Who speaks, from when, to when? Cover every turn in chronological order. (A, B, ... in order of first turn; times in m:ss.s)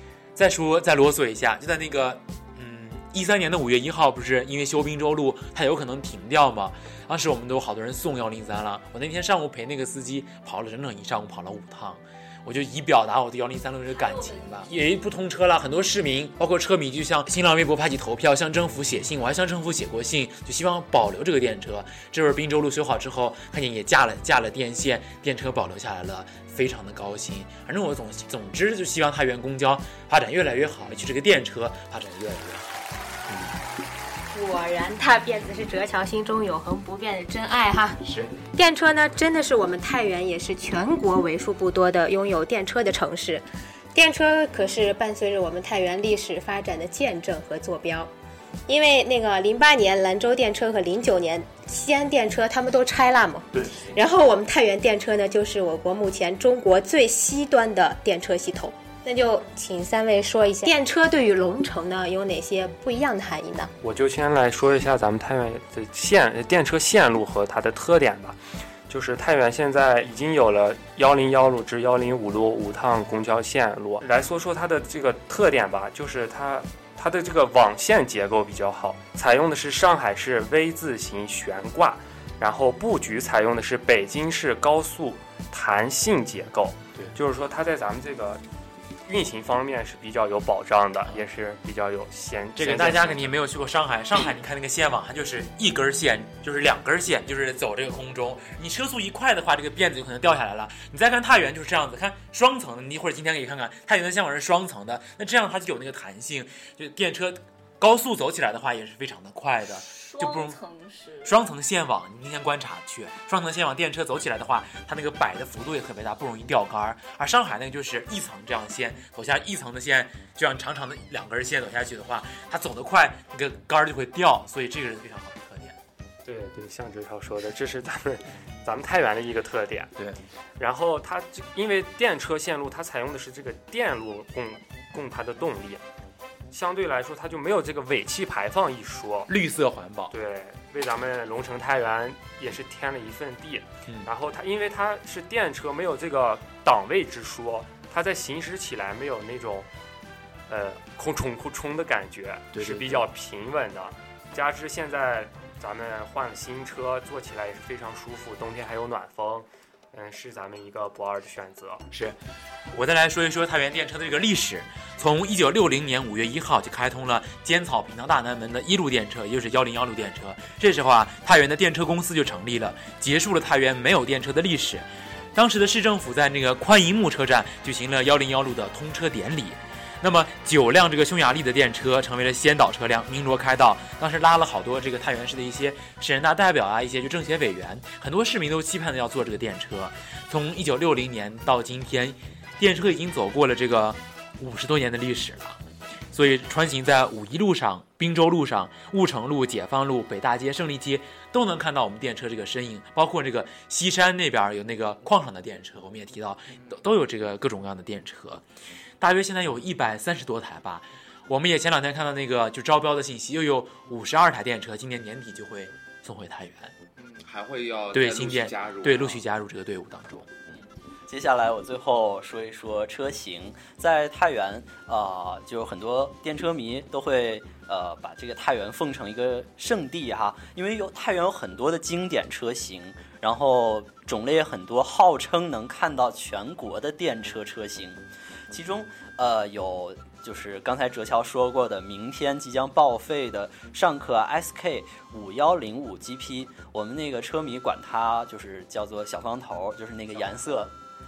0:00.4-0:33.5 A
0:13.9-0:14.8 B
0:34.3-0:38.0 C
0:38.0-0:38.4 A
0:38.5-0:48.1 C
0:48.7-1:03.7 C
0:53.5-0:54.0 A
1:03.8-1:08.4 D
1:08.9-1:28.4 D
1:29.1-1:33.3 D
1:32.6-1:50.6 A
1:49.8-1:51.4 B
1:51.2-2:05.8 A
2:06.2-2:09.9 D
2:10.0-2:10.2 A
2:10.6-2:15.8 D
2:16.5-2:19.3 D
2:19.3-2:20.1 A
2:20.1-2:29.7 D
2:30.5-2:41.8 D
2:32.5-2:33.1 A
2:41.9-2:42.2 A
2:42.7-3:15.6 A
3:16.1-3:28.4 A
3:29.0-3:36.8 A
3:37.0-3:39.2 E
3:37.9-3:40.3 A
3:41.1-4:10.7 F